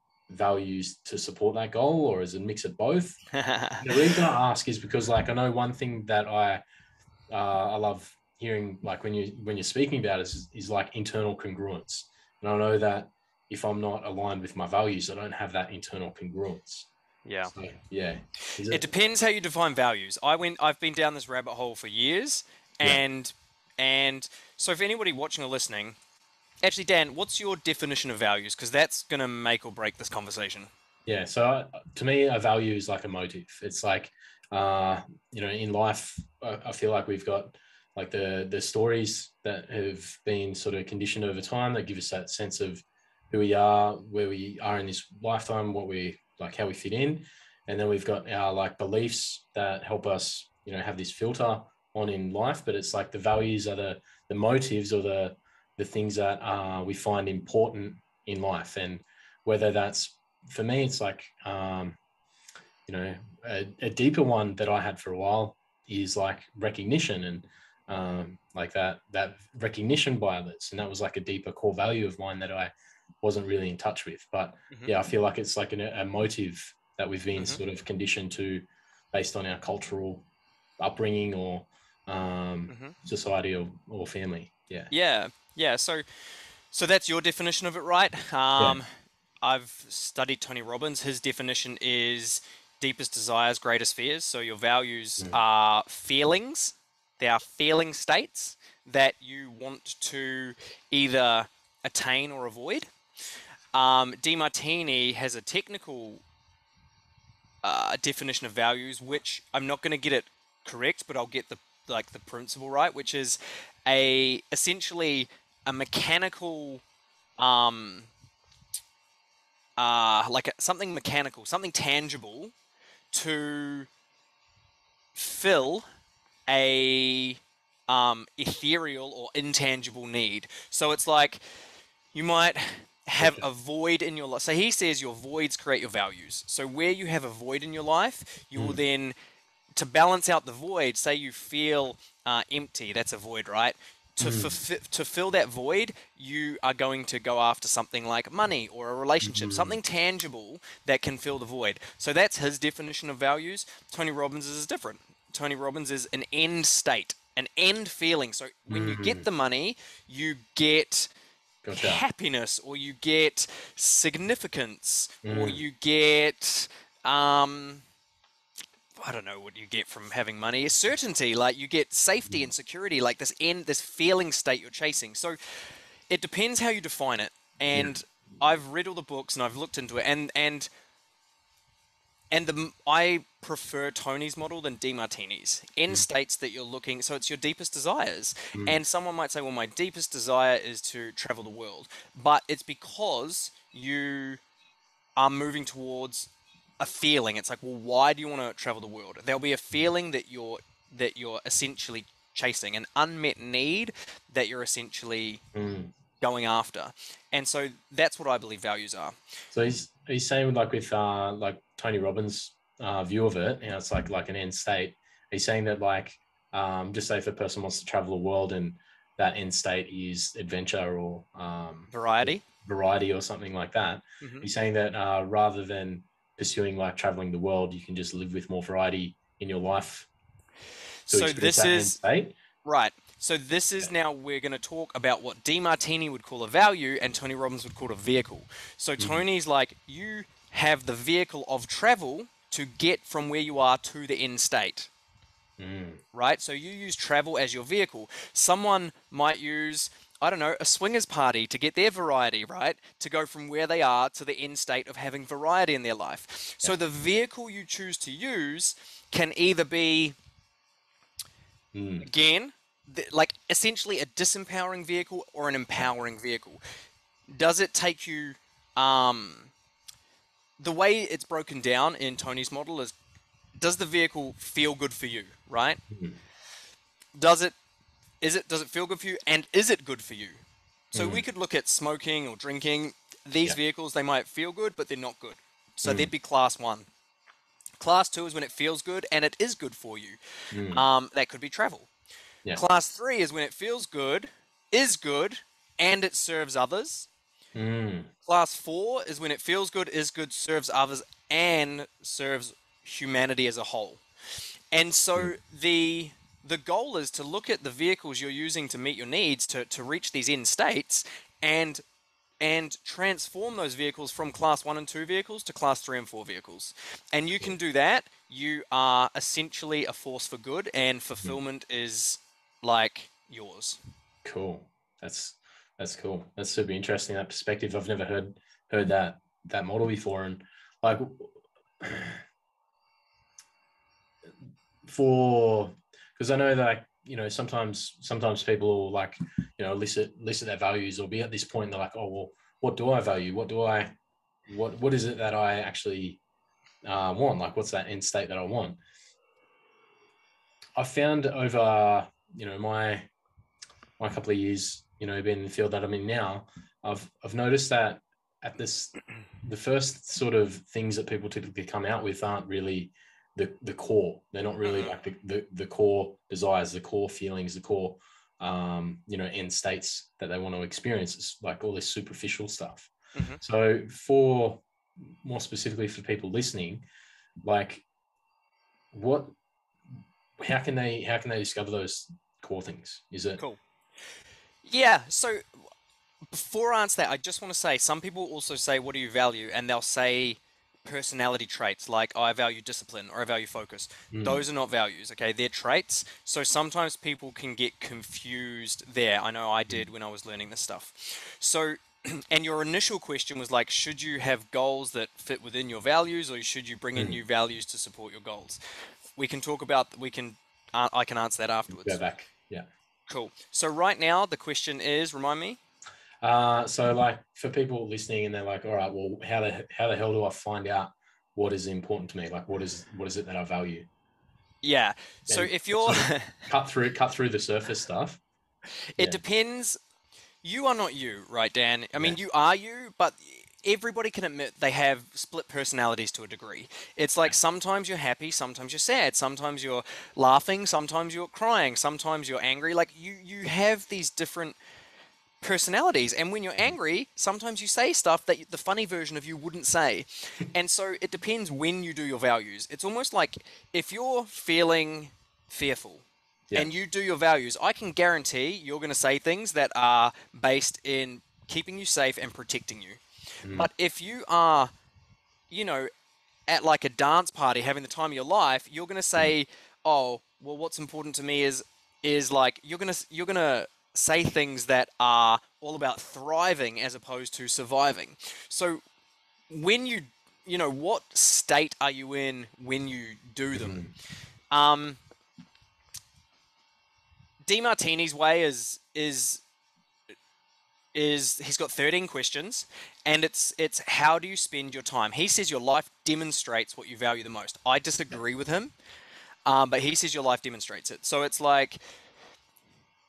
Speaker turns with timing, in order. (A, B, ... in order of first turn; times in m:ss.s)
0:00.3-0:03.2 A
0:03.3-0:04.0 B
0:03.8-0:06.6 A
0:07.3-0:16.9 A
0:17.2-0:17.5 B
0:17.5-0:18.9 A
0:18.6-0:26.0 B
0:26.6-0:30.7 B
0:31.0-1:02.0 A
1:02.9-1:20.2 A
1:20.8-1:24.9 A
1:22.7-1:22.9 B
1:24.9-1:28.9 B
1:29.4-1:42.9 B
1:43.7-1:46.2 B
1:47.6-1:56.8 B
1:57.4-1:58.1 B
1:59.8-2:02.5 B
2:03.1-2:03.9 B
2:05.1-2:05.8 B
2:06.5-2:11.4 B
2:12.1-2:19.1 B
2:13.2-2:13.5 A
2:19.8-2:41.1 B
2:24.2-2:24.5 A
2:29.2-2:29.8 A
2:38.7-2:39.2 A
2:41.6-2:42.0 A
2:41.8-2:47.8 B
2:45.2-2:45.6 A
2:49.0-3:00.7 B
3:02.3-3:14.4 B
3:15.2-3:25.4 B
3:25.5-3:25.9 A
3:26.2-3:29.2 B
3:29.5-3:50.1 A
3:41.9-3:42.4 B
3:44.2-3:44.5 B
3:51.1-3:52.0 B
3:51.1-3:52.3 A
3:52.6-4:04.9 B
3:59.0-3:59.2 A
4:05.6-4:06.0 A
4:06.1-4:20.2 B
4:21.7-4:22.1 A
4:22.0-4:26.6 B
4:27.3-4:29.5 B
4:30.6-4:32.9 B
4:33.6-4:35.8 B
4:35.9-4:36.2 A
4:37.1-4:37.6 B
4:38.2-4:40.4 B
4:40.9-4:46.9 B
4:40.9-4:41.2 A
4:47.8-4:51.9 B
4:50.5-4:50.8 A
4:52.5-4:57.1 B
4:57.6-4:58.1 A
4:58.2-5:04.0 B
5:04.7-5:11.8 B
5:12.4-5:23.8 B
5:24.2-5:32.2 A
5:34.8-5:43.9 A
5:44.5-5:46.2 A
5:46.8-5:48.8 A
5:50.8-5:53.1 A
5:54.0-6:14.6 A
6:04.6-6:04.9 B
6:13.1-6:13.4 B
6:15.2-6:16.8 A
6:17.4-6:17.8 A
6:18.9-6:19.3 A
6:20.4-6:23.4 A
6:24.6-6:25.6 B
6:26.3-6:48.6 B
6:34.1-6:34.4 A
6:49.2-6:52.0 B
6:51.7-6:52.7 A
6:53.1-6:55.6 B
6:56.2-7:03.9 A
7:04.6-7:06.4 B
7:05.3-7:08.2 A
7:08.9-7:09.8 B
7:10.4-7:24.6 B
7:25.4-7:36.0 B
7:36.6-7:43.0 B
7:43.4-7:43.7 A
7:43.5-7:44.7 B
7:45.5-7:45.9 B
7:46.5-7:58.8 B
7:59.5-8:03.8 B
8:03.5-8:03.9 A
8:04.5-8:05.0 B
8:07.4-8:09.4 B
8:10.9-8:18.7 B
8:19.4-8:21.8 B